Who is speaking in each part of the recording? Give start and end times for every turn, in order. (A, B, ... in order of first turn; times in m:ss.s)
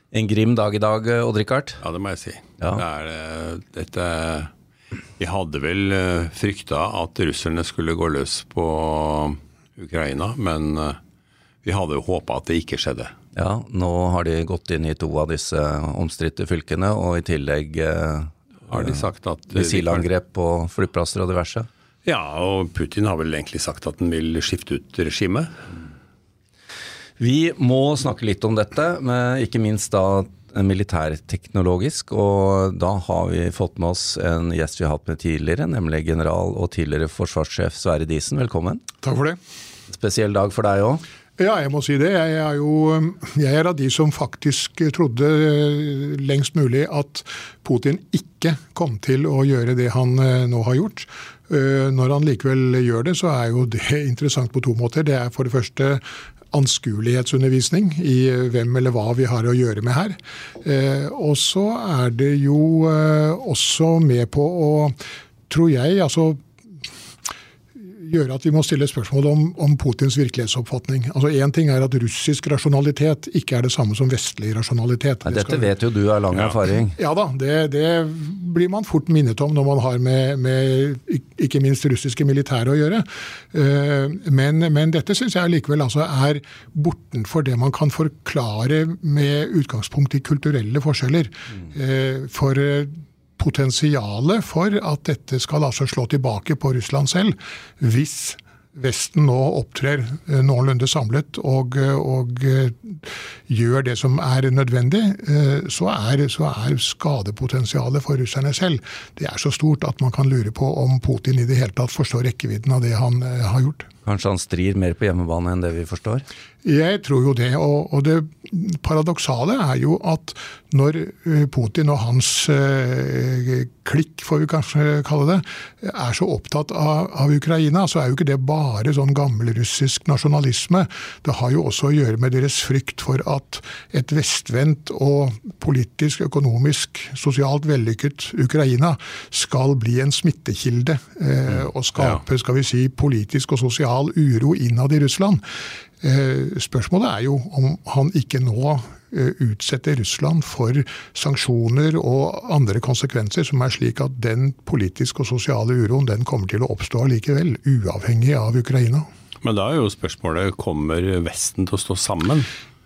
0:00.1-0:01.8 A
0:01.8-0:04.5 B
0:05.2-0:11.0 B
0:11.6-0:13.1 B
0:13.3-0:19.0 A
0:18.7-0:20.0 B
0:19.5-0:21.7 A
0:22.0-0:25.5 B
0:27.2-0:38.8 A
0:39.0-0:39.4 C
0:39.9-0:41.0 A
0:41.4-1:05.0 C
1:05.5-1:06.4 C
1:07.8-1:15.7 C
1:15.2-1:17.0 A
1:16.9-1:53.9 C
1:54.0-1:56.2 A
1:56.6-2:25.4 C
2:26.0-2:39.1 C
2:39.4-2:42.5 B